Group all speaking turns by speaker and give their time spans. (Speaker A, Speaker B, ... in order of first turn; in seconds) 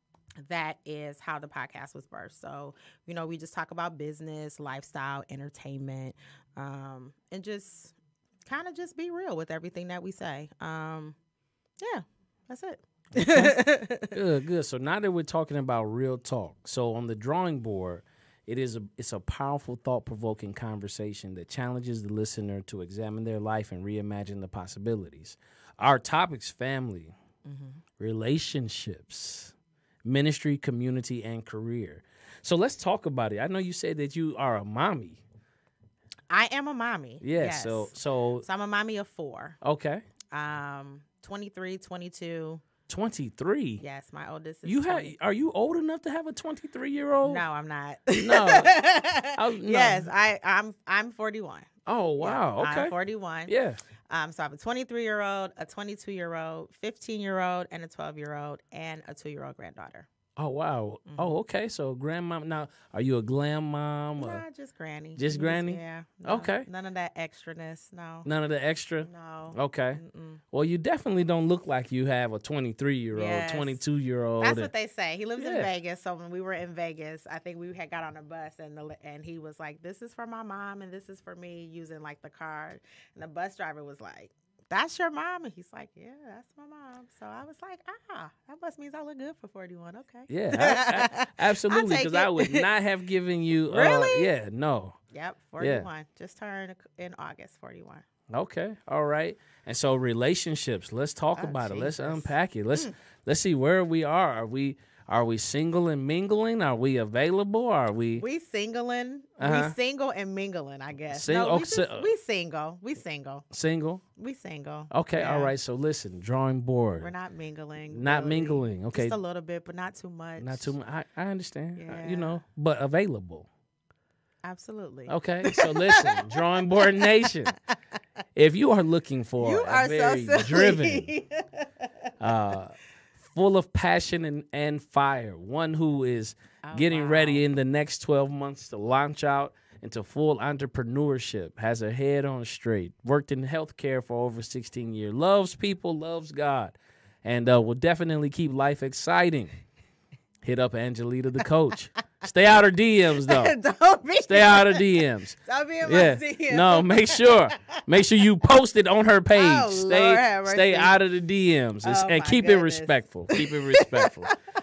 Speaker A: 0.4-7.9, 8.4-11.2, 11.8-14.1, 27.4-27.8, 36.3-39.6, 40.3-42.6, 43.8-45.1, 47.2-53.5, 54.1-60.1, 61.0-61.4, 64.2-68.3, 69.0-70.4, 73.1-73.8, 74.4-92.7, 93.7-94.3, 95.1-98.0, 101.3-102.9, 108.2-113.4, 114.2-115.5, 117.0-120.7, 121.8-122.4, 124.4-127.5, 129.4-132.1, 136.6-137.4, 153.2-157.8, 159.3-160.9, 161.8-164.3
Speaker B: 13.1-13.6, 14.1-27.1, 28.0-29.5, 30.0-35.2, 37.2-38.4, 39.6-40.0, 42.9-43.8, 44.6-47.4, 48.2-48.8, 49.3-50.1, 51.9-52.9, 53.5-53.8, 60.4-64.4, 65.2-66.7, 68.2-70.0, 70.5-74.7, 75.4-75.7, 90.3-95.0, 95.6-95.9, 98.3-108.2, 109.4-109.7, 111.1-112.1, 113.5-114.0, 114.9-117.1, 117.8-119.2, 120.4-123.5, 125.1-127.5, 128.3-131.1, 132.2-149.5, 150.4-153.5, 154.2-164.3